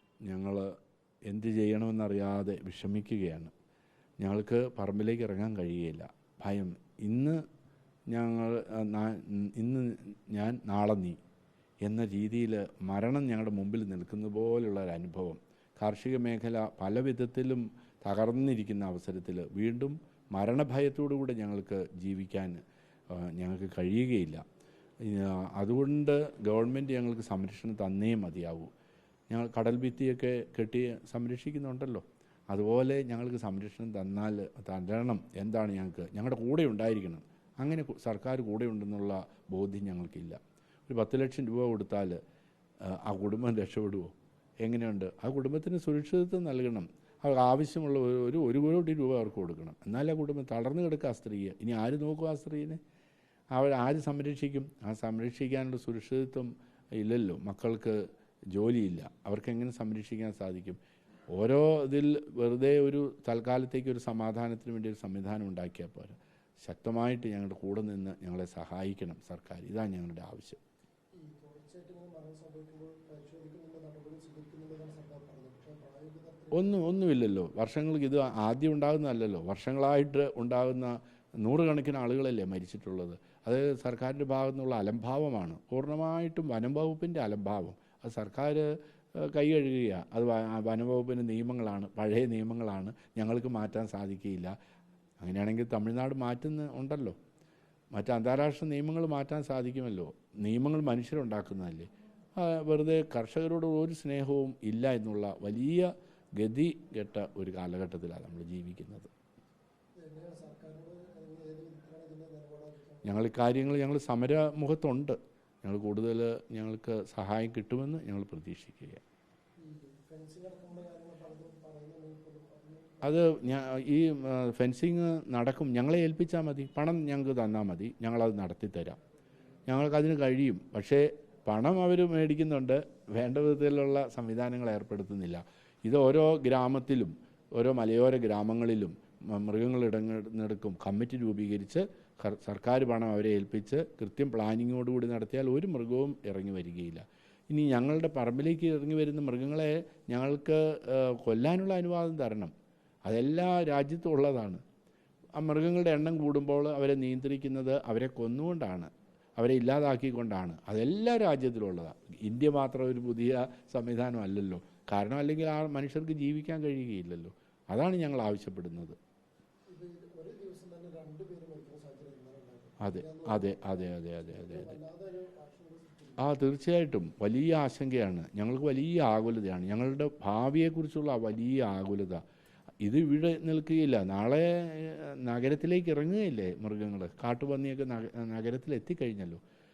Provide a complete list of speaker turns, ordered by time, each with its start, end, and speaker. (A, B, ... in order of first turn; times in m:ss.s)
0:00.2-0:00.7 A
0:01.3-0:03.5 A
0:04.2-0:07.4 A
0:08.1-0:11.2 A
0:11.8-0:24.4 A
0:25.0-0:28.7 A
0:29.3-0:42.2 A
0:42.8-0:52.8 A
0:53.5-0:58.0 A
0:58.5-1:00.8 A
1:01.3-1:10.6 A
1:11.2-1:16.9 B
1:16.5-1:34.5 A
1:35.2-1:37.2 A
1:37.9-1:49.1 A
1:50.0-1:53.3 B
1:53.0-1:59.0 A
1:59.6-2:03.5 B
2:03.0-2:09.0 A
2:09.7-2:32.5 A
2:33.0-2:34.6 A
2:35.4-2:49.0 A
2:49.7-2:56.4 B
2:52.8-2:54.8 A
2:56.2-3:02.2 A
3:02.8-3:09.4 A